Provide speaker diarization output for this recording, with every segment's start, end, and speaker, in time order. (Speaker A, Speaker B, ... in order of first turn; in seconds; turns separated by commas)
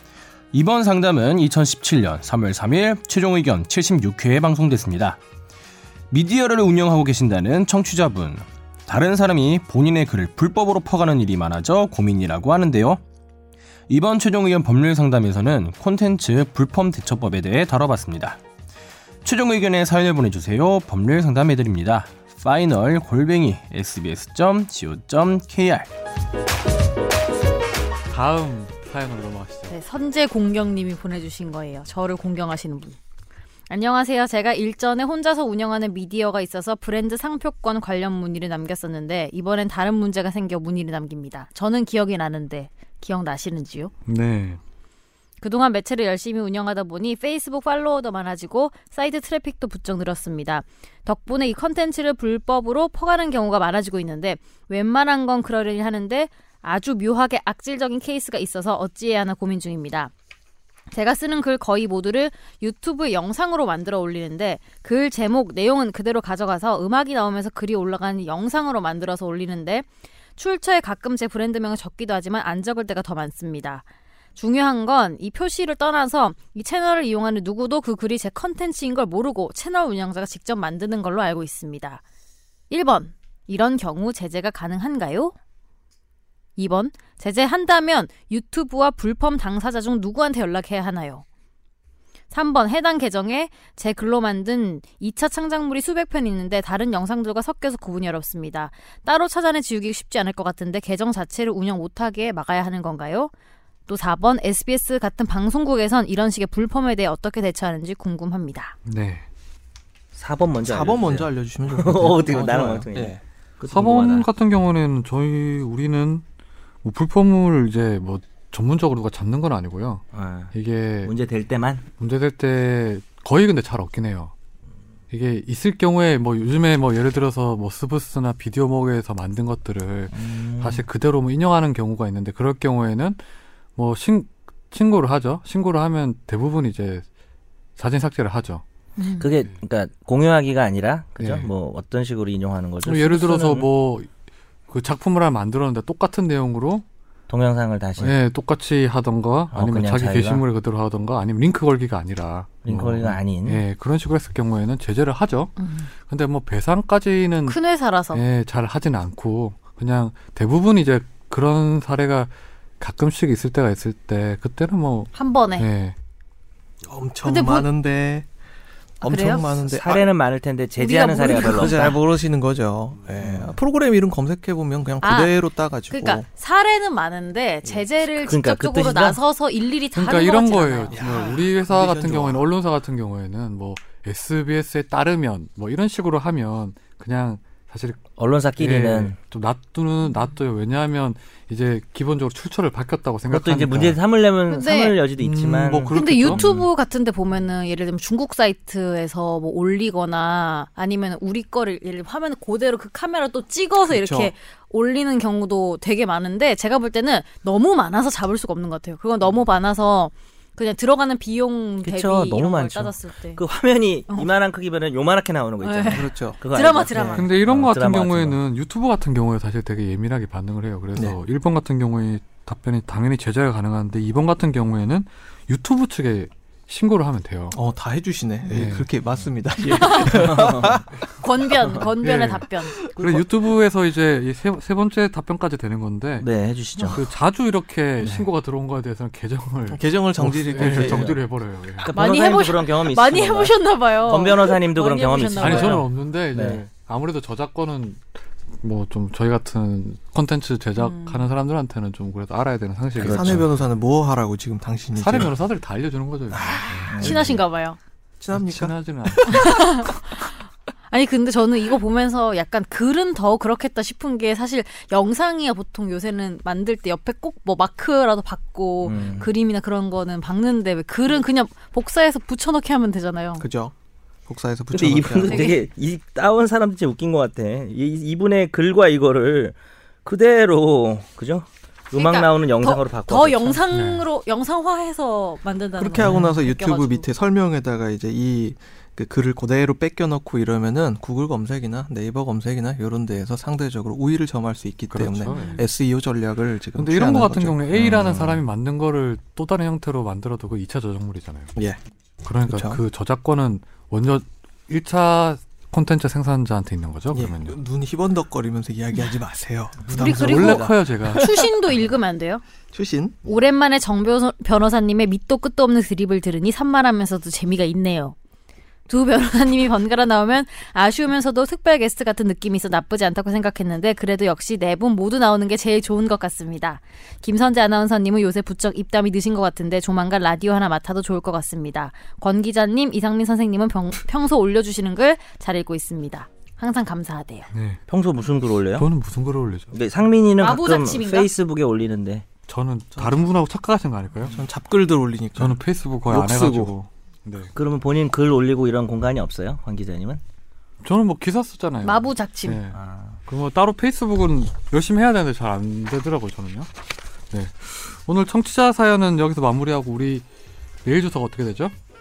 Speaker A: 0.5-5.2, Speaker A: 6.1-13.0, Speaker A: 13.9-18.4, Speaker A: 19.2-25.9, Speaker B: 28.1-29.7, Speaker C: 29.7-33.0, Speaker C: 33.7-43.9, Speaker B: 44.1-44.6, Speaker C: 45.4-60.1, Speaker C: 60.9-73.8, Speaker C: 74.3-82.0, Speaker C: 82.7-85.3, Speaker C: 86.6-91.2, Speaker C: 92.3-103.3, Speaker C: 103.9-108.7, Speaker B: 108.8-109.3, Speaker D: 110.1-114.3, Speaker E: 110.6-113.2, Speaker B: 113.7-116.2, Speaker B: 116.8-121.1, Speaker D: 120.1-121.9, Speaker B: 122.0-124.3, Speaker B: 125.1-133.2, Speaker D: 130.1-130.8, Speaker B: 133.8-137.1, Speaker B: 137.8-138.6, Speaker C: 139.0-139.3, Speaker D: 139.2-143.7, Speaker B: 141.2-141.5, Speaker B: 142.8-144.1, Speaker B: 144.7-146.8, Speaker D: 147.3-148.2, Speaker B: 148.0-157.6, Speaker D: 149.5-150.4, Speaker D: 152.6-153.6, Speaker C: 155.6-155.9, Speaker C: 157.5-158.2, Speaker B: 158.1-165.9, Speaker C: 165.1-165.7, Speaker E: 166.8-168.2, Speaker C: 167.2-167.7, Speaker E: 169.0-170.1, Speaker C: 169.0-169.6, Speaker D: 169.7-171.9, Speaker C: 170.8-172.0, Speaker E: 171.2-176.2, Speaker C: 175.0-175.3, Speaker C: 175.9-181.3, Speaker D: 178.2-179.2, Speaker B: 179.9-188.0, Speaker E: 180.9-182.4, Speaker D: 188.2-189.2, Speaker B: 188.6-194.0, Speaker D: 193.3-196.7, Speaker C: 194.5-194.9, Speaker B: 195.2-196.4, Speaker C: 195.9-213.4, Speaker E: 203.9-204.3, Speaker D: 211.8-218.4, Speaker C: 215.6-217.3, Speaker E: 215.9-217.2, Speaker B: 217.2-227.6, Speaker E: 227.5-230.9, Speaker B: 228.5-228.9, Speaker C: 229.7-230.2, Speaker C: 231.2-232.7, Speaker B: 232.0-236.3, Speaker D: 236.2-237.1, Speaker B: 236.9-241.9, Speaker D: 238.0-238.3, Speaker E: 239.7-241.2, Speaker D: 241.8-246.7, Speaker C: 241.9-245.9, Speaker B: 245.3-248.0, Speaker B: 248.6-253.5, Speaker C: 250.8-251.3, Speaker D: 253.0-253.3, Speaker E: 253.1-255.3, Speaker B: 254.9-257.3, Speaker E: 256.3-257.1, Speaker D: 256.9-257.2, Speaker C: 256.9-257.8, Speaker E: 258.2-259.9, Speaker B: 258.3-259.6, Speaker C: 259.3-260.4, Speaker C: 260.9-273.4, Speaker D: 268.8-269.3, Speaker E: 273.4-273.7, Speaker E: 274.3-275.6, Speaker D: 274.7-283.6, Speaker C: 275.2-275.6, Speaker C: 281.9-287.1, Speaker B: 283.7-284.1, Speaker E: 285.8-298.4, Speaker B: 286.0-286.3, Speaker B: 294.9-295.6, Speaker C: 295.2-295.6, Speaker B: 296.8-301.5, Speaker B: 302.2-307.6, Speaker E: 302.4-302.8, Speaker E: 307.1-310.8, Speaker B: 309.9-311.3, Speaker C: 309.9-312.4, Speaker E: 312.7-313.2, Speaker C: 313.2-318.1, Speaker C: 318.9-337.5, Speaker B: 337.5-337.8, Speaker D: 337.9-338.9, Speaker B: 338.7-339.7, Speaker D: 339.7-342.2, Speaker C: 340.4-341.3, Speaker B: 342.5-344.4, Speaker E: 344.2-346.7, Speaker B: 345.4-347.5, Speaker D: 347.5-350.2, Speaker B: 350.8-356.7, Speaker C: 351.8-352.6, Speaker D: 352.7-353.2, Speaker B: 357.3-360.2, Speaker B: 360.8-361.7